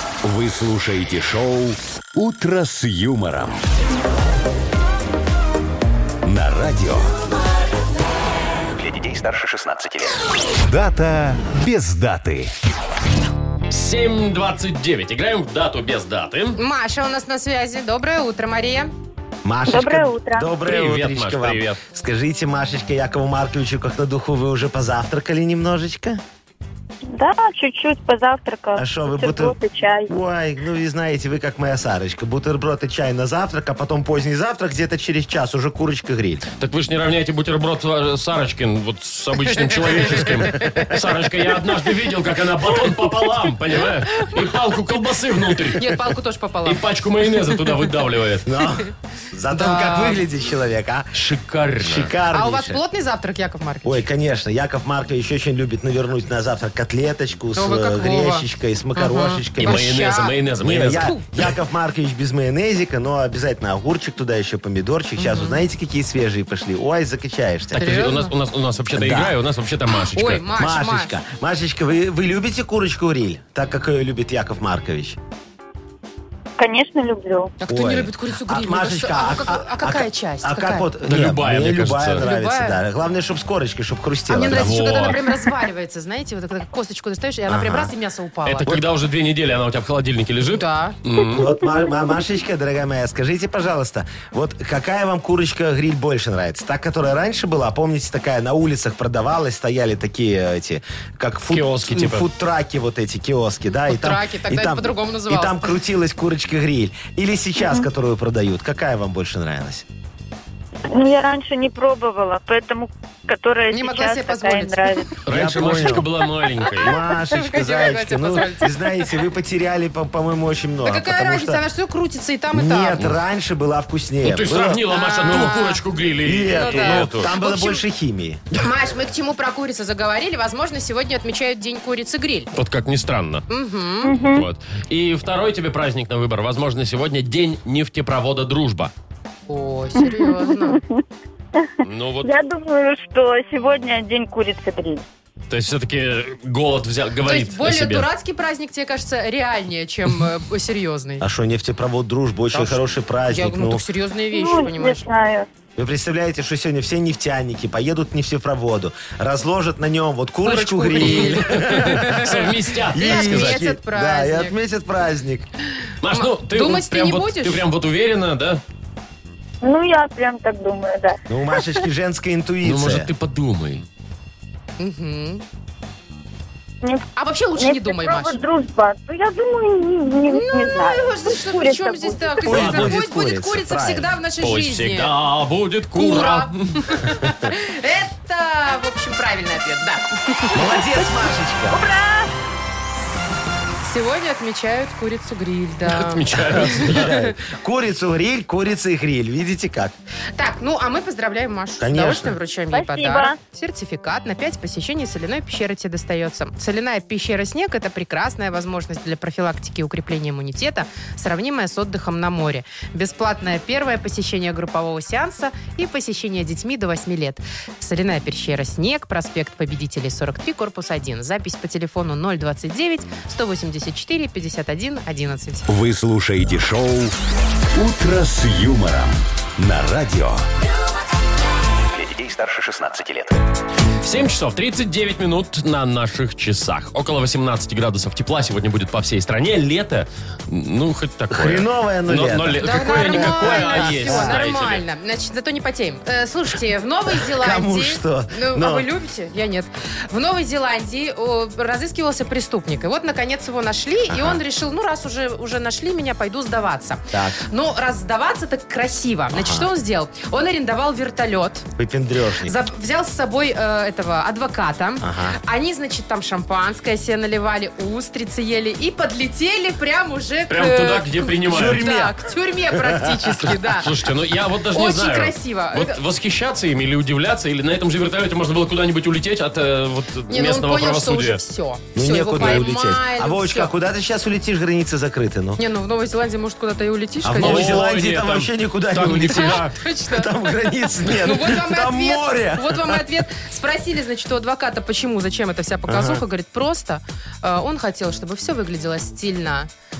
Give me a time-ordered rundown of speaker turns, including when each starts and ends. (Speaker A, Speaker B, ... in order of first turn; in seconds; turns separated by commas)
Speaker A: 0.2-3.6, Speaker A: 6.2-7.1, Speaker A: 8.8-12.5, Speaker B: 13.7-16.6, Speaker C: 16.6-18.9, Speaker D: 19.4-26.2, Speaker E: 19.6-20.5, Speaker B: 20.6-21.8, Speaker E: 27.1-30.1, Speaker D: 28.7-36.4, Speaker B: 36.6-46.0, Speaker C: 39.5-40.9, Speaker D: 40.5-40.9, Speaker C: 44.1-44.4, Speaker C: 45.7-46.9, Speaker B: 46.6-48.5, Speaker D: 48.4-51.2, Speaker C: 49.5-50.2, Speaker B: 51.1-52.1, Speaker D: 51.8-52.8, Speaker C: 52.3-54.0, Speaker D: 53.8-60.1, Speaker C: 57.6-60.4, Speaker B: 59.6-61.1, Speaker D: 60.6-67.9, Speaker C: 60.9-61.2, Speaker C: 65.2-65.6, Speaker B: 67.7-70.5, Speaker C: 67.8-68.3, Speaker D: 68.9-69.4, Speaker C: 70.1-71.1, Speaker D: 70.5-75.2, Speaker E: 76.6-77.5, Speaker C: 77.6-80.9, Speaker D: 77.7-84.8, Speaker B: 81.0-82.2, Speaker C: 82.2-82.8, Speaker C: 84.3-88.7, Speaker B: 84.5-85.3, Speaker D: 87.5-87.9, Speaker B: 88.5-91.4, Speaker C: 90.5-91.0, Speaker D: 91.3-109.8, Speaker B: 101.5-102.3, Speaker C: 103.9-105.7, Speaker E: 107.6-107.9, Speaker E: 110.9-115.2, Speaker C: 113.7-115.1, Speaker B: 115.2-116.9, Speaker D: 115.3-116.1, Speaker C: 116.6-119.1, Speaker D: 116.7-121.6, Speaker C: 120.8-123.0, Speaker D: 122.5-125.5, Speaker B: 124.2-127.3, Speaker C: 124.9-125.8, Speaker D: 126.2-128.4, Speaker C: 126.5-127.8, Speaker C: 128.5-132.5, Speaker B: 132.5-133.5, Speaker C: 133.5-134.2, Speaker E: 134.0-134.4, Speaker B: 134.3-138.9, Speaker C: 139.5-140.8, Speaker E: 140.0-141.0, Speaker B: 141.8-142.3, Speaker E: 142.2-145.0, Speaker B: 145.5-148.1, Speaker C: 147.2-151.2, Speaker D: 151.2-153.8, Speaker C: 152.5-155.1, Speaker E: 154.3-155.5, Speaker D: 155.8-165.5, Speaker C: 160.4-164.5, Speaker B: 161.0-163.6, Speaker B: 166.0-168.6, Speaker C: 166.1-167.6, Speaker E: 169.6-171.8, Speaker D: 171.3-173.1, Speaker B: 172.6-173.8, Speaker C: 174.8-175.4, Speaker C: 177.2-178.4, Speaker E: 177.6-182.4, Speaker C: 180.3-185.1, Speaker D: 182.4-184.1, Speaker B: 182.5-183.0, Speaker B: 184.4-187.1, Speaker C: 185.9-191.0, Speaker D: 190.5-191.8, Speaker E: 191.7-192.3, Speaker C: 193.8-197.3, Speaker B: 195.9-197.1, Speaker D: 196.4-199.9, Speaker C: 200.4-225.7, Speaker D: 201.8-202.3, Speaker E: 202.7-203.4, Speaker A: 225.7-227.1, Speaker A: 227.7-230.4, Speaker A: 231.9-233.4, Speaker B: 234.0-244.8, Speaker D: 241.3-244.4, Speaker C: 242.6-261.7, Speaker D: 247.1-248.9, Speaker D: 254.1-254.4, Speaker D: 257.1-257.4, Speaker D: 259.3-259.7, Speaker D: 261.8-262.5, Speaker C: 262.4-273.9, Speaker D: 265.0-265.4, Speaker B: 270.5-271.9, Speaker D: 271.4-272.2, Speaker D: 272.7-273.5, Speaker B: 273.7-281.4, Speaker C: 274.7-276.0, Speaker C: 280.3-283.7, Speaker D: 281.9-285.6, Speaker C: 285.6-287.9, Speaker D: 287.2-293.1, Speaker B: 287.4-289.8, Speaker C: 289.2-299.7, Speaker D: 295.9-296.2